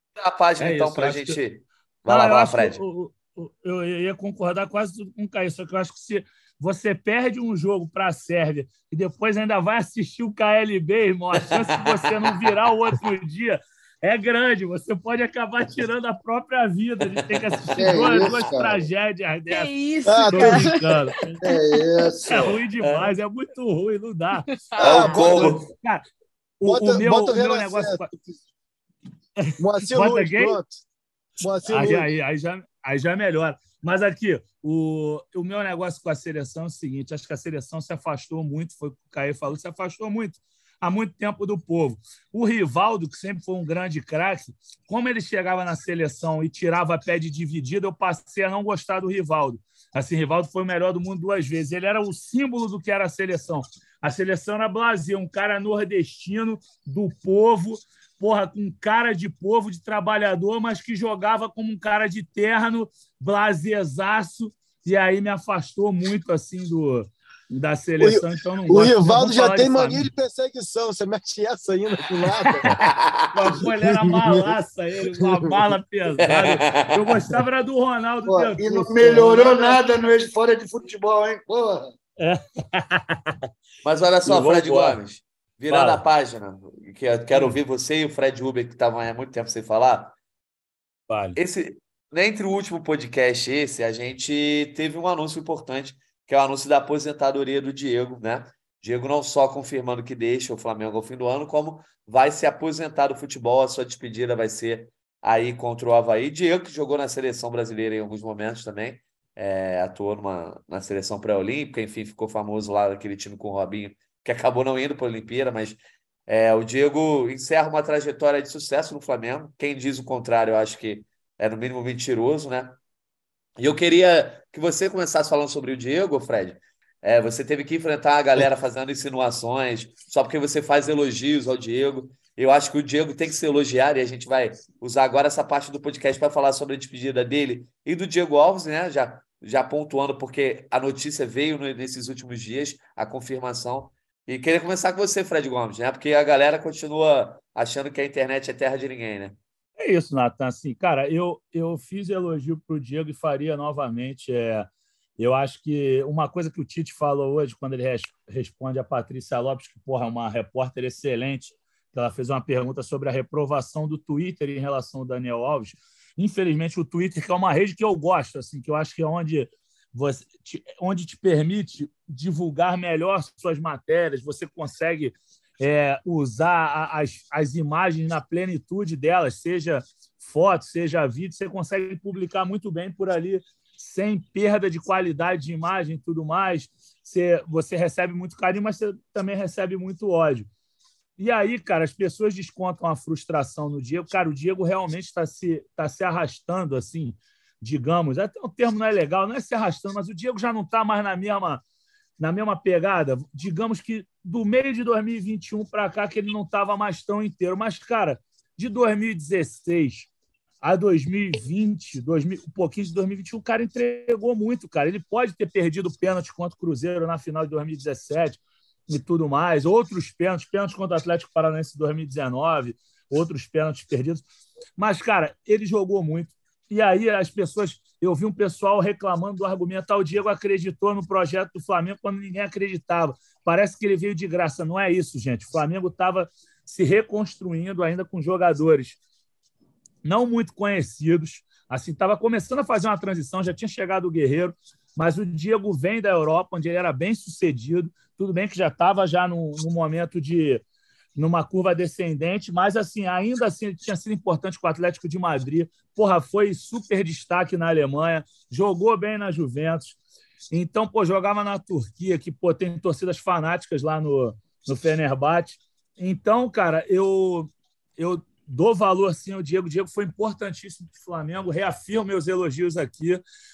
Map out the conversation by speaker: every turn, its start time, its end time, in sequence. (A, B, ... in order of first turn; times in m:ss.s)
0:00.2-0:02.8 A
0:00.6-0:01.4 B
0:02.1-0:19.7 B
0:11.4-0:12.5 A
0:17.0-0:18.3 A
0:17.8-0:18.8 C
0:19.5-0:21.0 D
0:20.1-0:21.0 E
0:20.3-0:21.4 B
0:21.4-0:22.6 C
0:22.2-0:26.0 B
0:22.8-0:23.1 A
0:24.5-0:25.3 D
0:24.8-0:25.7 A
0:24.8-0:25.6 E
0:26.6-0:28.1 B
0:26.6-0:28.2 E
0:29.4-0:30.6 B
0:29.6-0:30.7 E
0:31.4-0:32.1 E
0:31.6-1:10.1 B
1:08.0-1:12.7 E
1:12.3-1:19.8 B
1:12.8-1:13.5 A
1:13.6-1:14.5 E
1:15.0-1:15.7 E
1:16.2-1:17.4 A
1:18.3-1:21.9 C
1:22.2-1:23.4 B
1:23.8-1:30.1 A
1:24.2-1:25.0 B
1:25.7-1:26.0 B
1:31.1-1:31.4 B
1:31.4-2:02.8 A
2:03.6-2:29.4 A
2:29.8-3:10.5 B
3:11.2-3:21.6 B
3:22.2-3:30.1 B
3:30.6-3:44.2 B
3:44.8-3:59.0 B
4:00.0-4:10.6 B
4:11.1-4:20.0 B
4:20.5-4:33.2 B